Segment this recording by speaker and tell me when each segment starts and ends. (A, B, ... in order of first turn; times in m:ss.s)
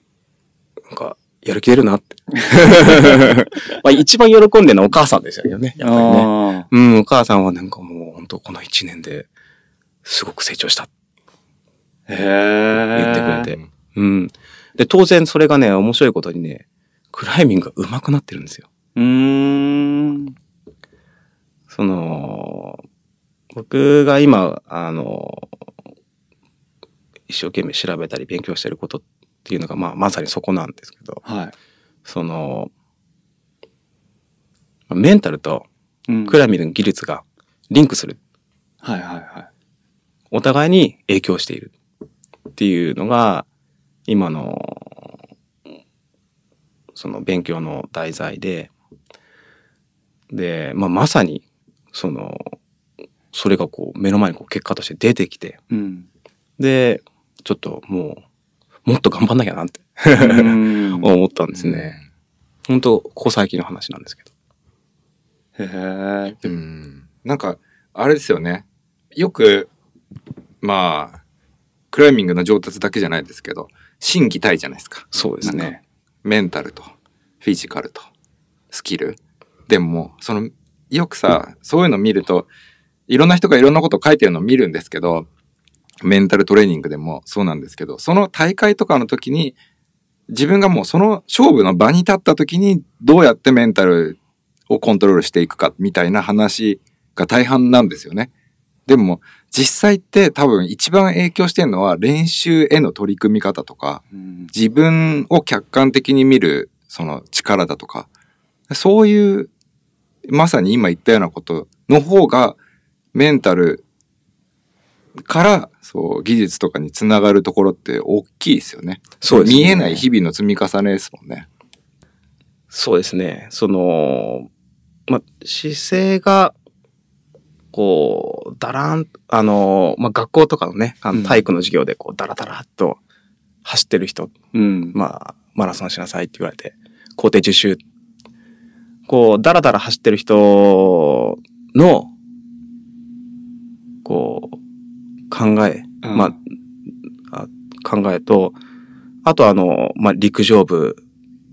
0:00.9-0:09.3 A
0:02.7-0:03.2 B
0:05.8-0:06.7 B
0:10.0-0:10.9 A
0:12.1-0:13.5 B
0:12.9-0:18.6 A
0:19.0-0:20.3 B
0:21.7-0:22.8 A
0:23.5-0:25.5 A
0:27.3-0:31.2 A
0:31.2-0:31.5 B
0:32.0-0:32.7 A
0:34.9-0:35.6 A
0:36.1-0:36.4 B
0:36.2-0:38.2 A
0:38.8-0:39.5 B
0:40.3-0:41.7 A
0:42.6-0:43.4 A
0:44.1-0:45.0 A
0:46.9-0:48.7 A
0:50.3-0:52.6 A
0:53.3-0:55.6 A
0:55.7-0:56.1 B
0:56.6-0:58.2 A
0:58.8-1:02.0 A
1:00.2-1:01.1 B
1:01.6-1:02.0 C
1:02.7-1:04.2 A
1:05.6-1:06.4 B
1:06.4-1:09.7 C
1:10.6-1:11.2 C
1:11.9-1:15.1 C
1:15.1-1:15.8 A
1:15.4-1:15.8 B
1:16.2-1:16.9 C
1:17.4-1:18.1 C
1:18.7-1:22.5 C
1:23.1-1:25.3 C
1:26.0-1:29.6 C
1:30.3-1:34.2 C
1:34.7-1:38.3 C
1:38.8-1:44.0 C
1:44.1-1:44.5 B
1:44.5-1:48.1 C
1:48.7-1:49.5 C
1:50.3-1:52.6 C
1:53.1-1:53.8 C
1:55.2-2:01.4 C
1:59.2-2:00.0 A
2:02.7-2:04.5 A
2:05.1-2:06.5 A
2:07.7-2:13.0 A
2:11.1-2:11.4 B
2:13.6-2:14.3 A
2:14.5-2:15.0 B
2:14.9-2:17.8 A
2:19.1-2:22.1 A
2:24.0-2:24.6 A
2:25.3-2:26.4 A
2:26.0-2:26.3 B
2:27.3-2:28.6 A
2:29.2-2:31.0 A